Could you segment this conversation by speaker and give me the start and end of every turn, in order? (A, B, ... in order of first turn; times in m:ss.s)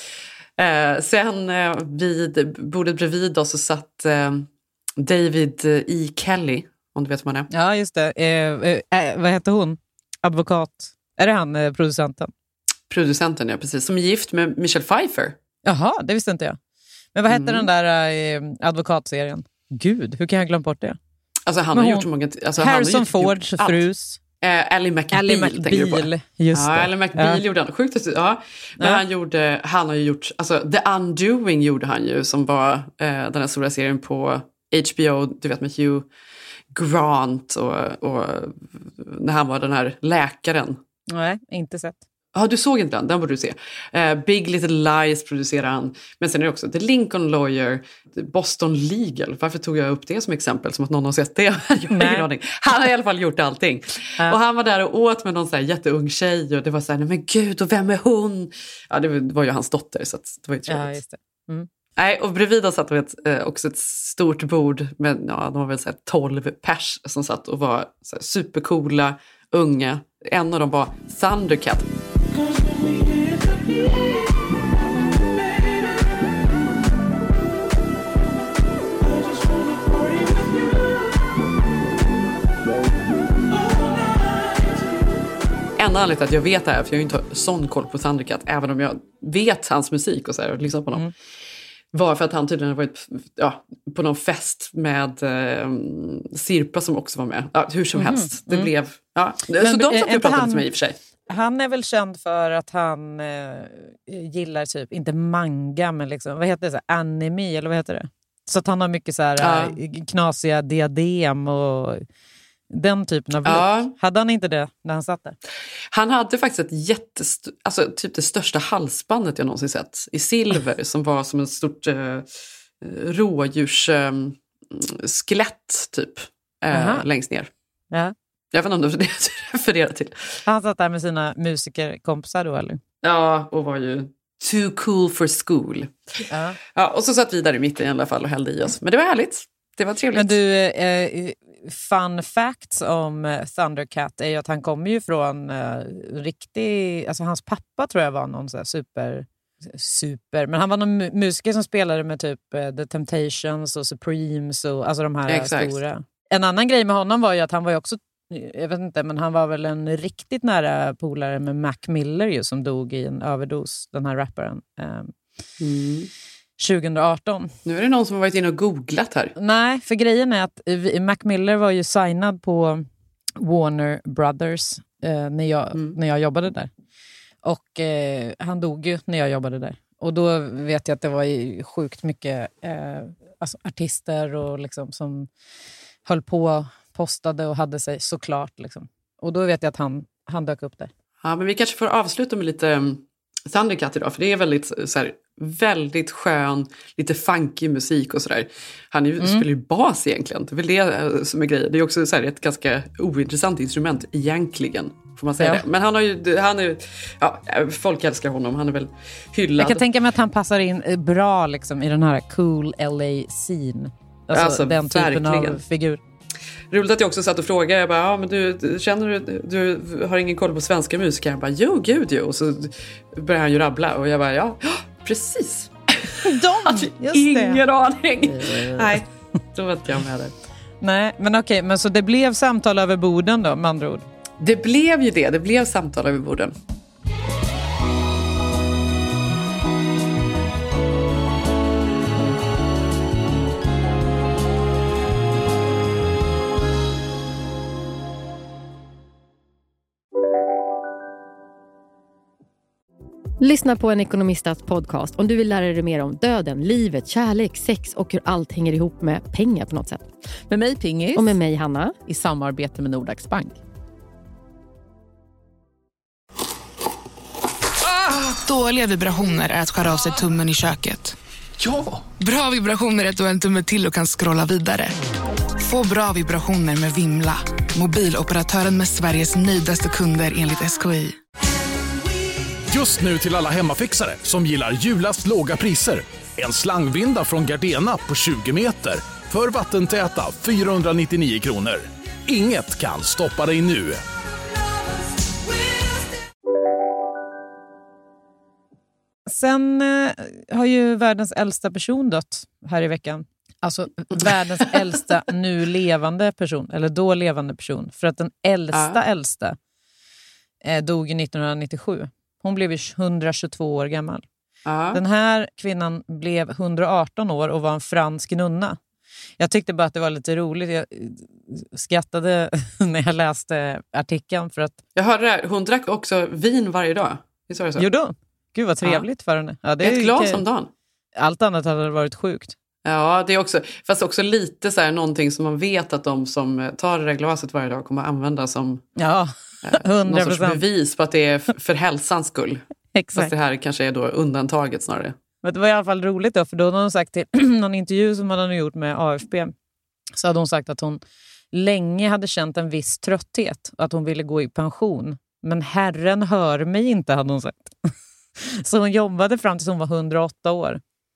0:00.6-0:04.5 A
0:05.0-0:07.5 A
0:07.5-0:12.3 B
0:12.9-0:15.3 A
0:15.6-0:16.6 B
0:17.1-0:21.0 B
0:17.3-0:17.7 A
0:21.5-0:23.8 A
0:21.7-0:22.1 B
0:22.6-0:24.2 B
0:24.4-0:36.0 A
0:25.1-0:27.4 B
0:36.7-0:40.8 A
0:41.1-0:42.0 B
0:42.3-1:01.0 A
0:51.9-0:52.3 B
1:00.7-1:01.7 B
1:02.0-1:11.9 A
1:25.8-1:31.0 A
1:31.9-1:41.0 A
1:37.9-1:38.7 B
1:39.6-1:40.7 B
1:41.3-1:52.0 B
1:49.4-1:49.7 A
1:52.7-1:55.4 B
1:53.4-1:53.9 A
1:55.9-2:02.3 A
2:02.8-2:07.5 A
2:06.7-2:07.0 B
2:08.5-2:10.4 A
2:10.4-2:12.8 B
2:13.0-2:20.4 A
2:16.3-2:16.6 B
2:20.1-2:45.1 B
2:35.3-2:35.8 A
2:45.6-2:46.1 A
2:46.6-2:47.5 B
2:47.6-2:49.3 A
2:49.4-2:52.8 B
2:53.4-2:56.7 B
2:57.4-3:05.3 B
3:06.0-3:10.9 B
3:11.2-3:29.8 A
3:25.4-3:25.6 B
3:29.6-3:36.0 B
3:34.3-3:35.6 A
3:36.7-3:50.3 A
3:46.2-3:47.6 B
3:48.2-3:48.9 B
3:50.8-3:54.1 B
3:54.4-3:56.5 A
4:13.4-4:20.1 C
4:20.5-4:21.2 D
4:20.7-4:21.1 B
4:21.1-4:22.0 C
4:22.1-4:23.5 D
4:28.0-4:31.2 E
4:32.1-4:35.0 E
4:35.6-4:41.2 E
4:42.7-4:54.0 F
4:59.3-5:09.6 B
5:10.6-5:14.2 B
5:14.6-5:15.0 A
5:14.9-5:18.8 B
5:19.4-5:24.8 B
5:25.0-5:27.8 A
5:27.8-5:30.4 B
5:29.8-5:30.7 A
5:31.2-5:32.5 B
5:32.8-5:38.8 A
5:39.0-5:40.6 B
5:39.6-5:42.6 A
5:42.9-5:43.3 B
5:43.2-5:45.1 A
5:45.4-5:49.5 B
5:50.1-5:51.0 B
5:51.5-5:57.7 B
5:58.4-6:00.8 B